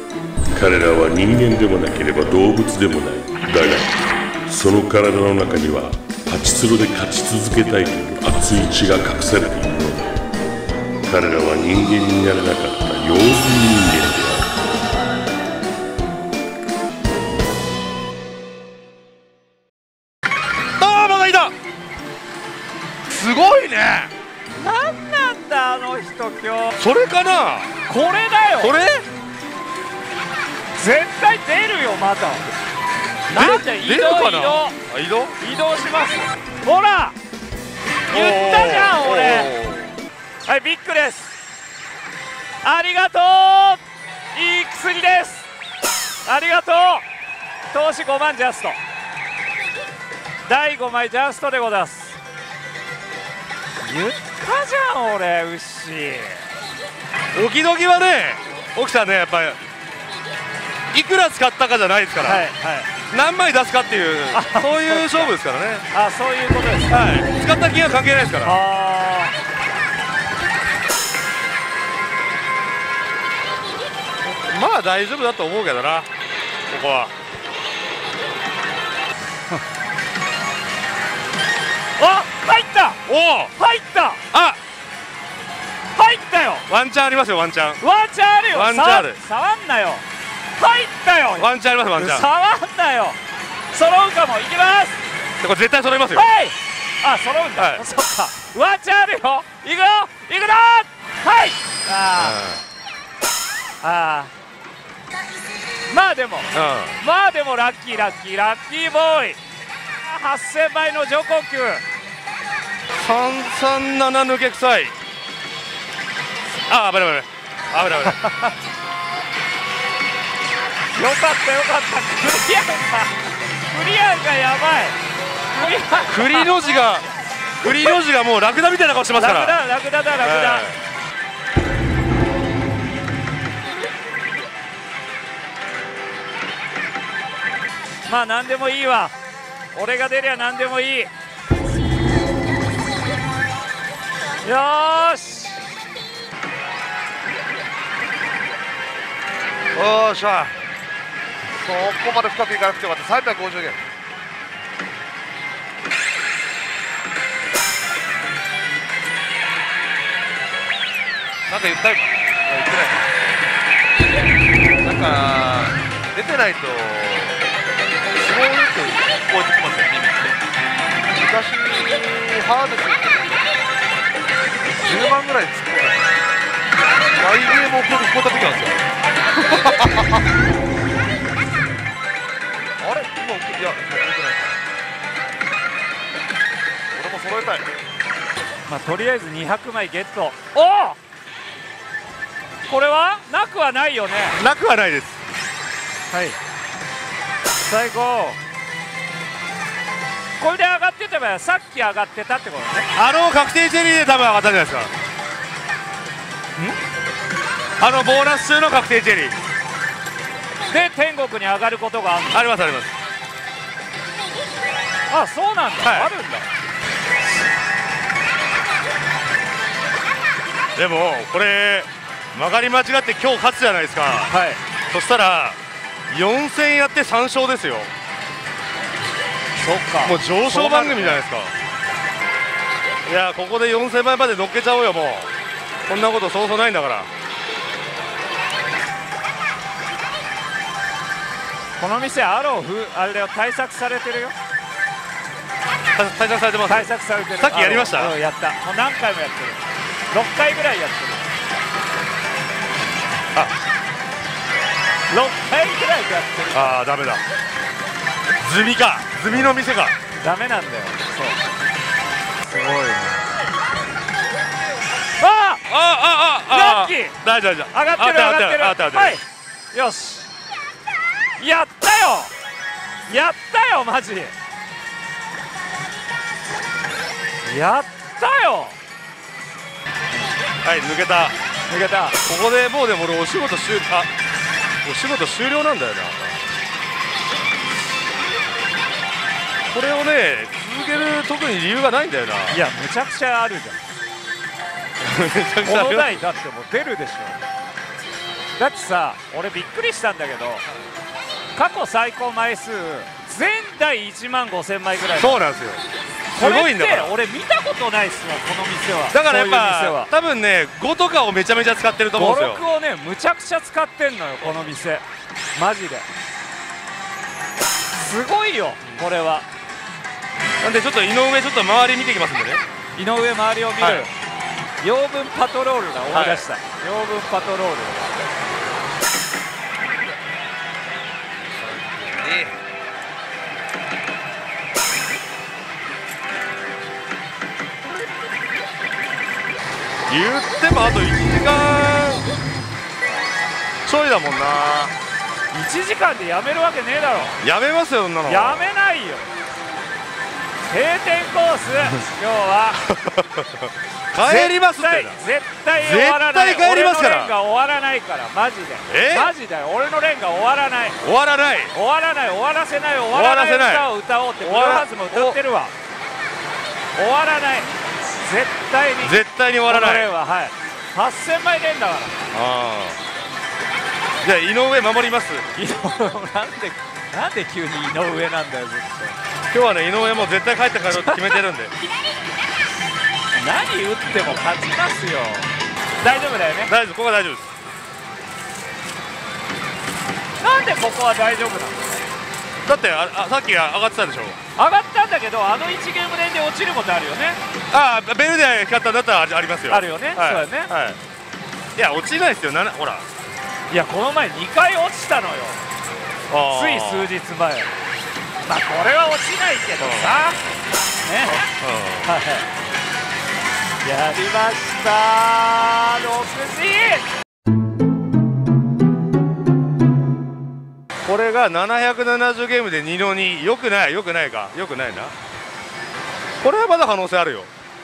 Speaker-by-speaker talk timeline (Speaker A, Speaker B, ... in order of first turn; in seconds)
Speaker A: 0.5-10.2, 11.0-14.5
Speaker B: 20.8-21.5, 26.8-27.7, 28.6-29.1, 33.3-35.4, 38.1-39.9, 57.3-59.6, 60.9-62.5, 63.1-65.9, 66.9-68.6, 74.2-76.1, 76.7-77.1, 83.1-83.5, 84.3-84.6, 86.7-87.8, 88.5-89.2, 91.4-92.3, 95.4-96.3, 97.6-97.8, 102.2-102.6, 106.5-107.0, 113.0-115.0, 116.7-118.2, 126.1-127.1, 127.6-129.6, 130.2-130.8, 194.4-195.2, 202.9-204.9, 207.8-209.4, 212.3-212.9, 215.8-216.1, 220.8-224.3, 224.9-225.6, 226.1-227.9, 230.0-231.5, 233.1-235.3, 235.9-237.1, 245.9-248.2, 256.5-257.2, 258.4-260.0, 265.7-269.2, 280.6-281.3, 282.2-284.1, 284.8-286.4, 289.7-292.6, 295.0-296.2, 305.2-305.8, 306.4-307.1, 309.1-312.6, 320.6-322.6, 323.8-324.1, 326.1-326.5, 340.1-342.3, 343.9-344.9, 347.4-348.7, 352.9-355.2, 355.8-357.3, 358.9-359.3, 361.0-361.7, 363.1-363.9, 364.4-365.4, 369.0-370.1, 372.3-373.0, 374.2-375.5, 379.5-381.7, 386.7-387.5, 392.6-394.4, 397.7-401.0, 401.8-403.1, 406.3-407.1, 409.8-410.2, 411.4-412.1, 421.0-425.1, 426.4-427.5
Speaker C: 23.1-24.1, 149.8-150.5, 151.6-153.8, 161.5-163.1, 164.8-167.4, 168.2-170.4, 171.1-173.5, 174.7-176.2, 177.2-178.8, 179.3-180.2, 182.8-184.6, 186.9-187.7, 331.6-332.6
Speaker D: 24.6-26.8, 27.9-28.7, 30.8-32.4, 33.3-34.8, 35.4-37.2, 38.1-39.5, 40.5-41.4, 42.6-43.8, 44.3-45.5, 46.2-47.1, 47.7-48.8, 50.5-52.2, 53.8-56.4, 62.2-62.9, 64.3-65.3, 65.9-67.0, 68.5-69.3, 82.0-83.0, 83.6-84.2, 86.0-86.7, 87.8-90.0, 90.6-93.2, 93.7-95.0, 96.1-102.4, 103.8-104.3, 105.9-109.4, 110.0-111.8, 118.2-118.5, 120.9-125.0, 125.5-126.7, 127.7-128.0, 129.2-130.7, 138.1-139.1, 139.7-141.1, 144.4-145.7, 188.7-191.0, 192.7-194.4, 196.1-196.4, 197.6-198.4, 200.4-202.9, 210.7-212.5, 215.1-216.5, 224.3-224.6, 229.6-231.2, 241.8-244.3, 246.7-251.3, 255.1-256.8, 260.2-261.4, 262.4-263.3, 265.2-265.6, 266.5-267.2, 267.7-269.2, 269.7-270.3, 271.4-272.3, 273.1-274.3, 277.4-278.8, 281.7-282.2, 292.5-293.8, 295.6-297.4, 298.6-300.6, 301.6-305.4, 306.4-310.1, 312.1-315.1, 315.6-316.1, 317.9-319.5, 323.0-324.1, 324.8-328.0, 345.5-347.4, 348.3-349.3, 350.7-352.8, 354.2-361.0, 361.7-365.7, 367.0-372.2, 375.6-379.2, 381.0-381.4, 383.4-385.5, 386.0-386.7, 390.4-391.8, 394.6-397.4, 399.7-400.7, 403.7-405.6, 406.5-407.7, 408.4-410.4, 411.1-411.4, 412.0-412.5, 413.8-417.1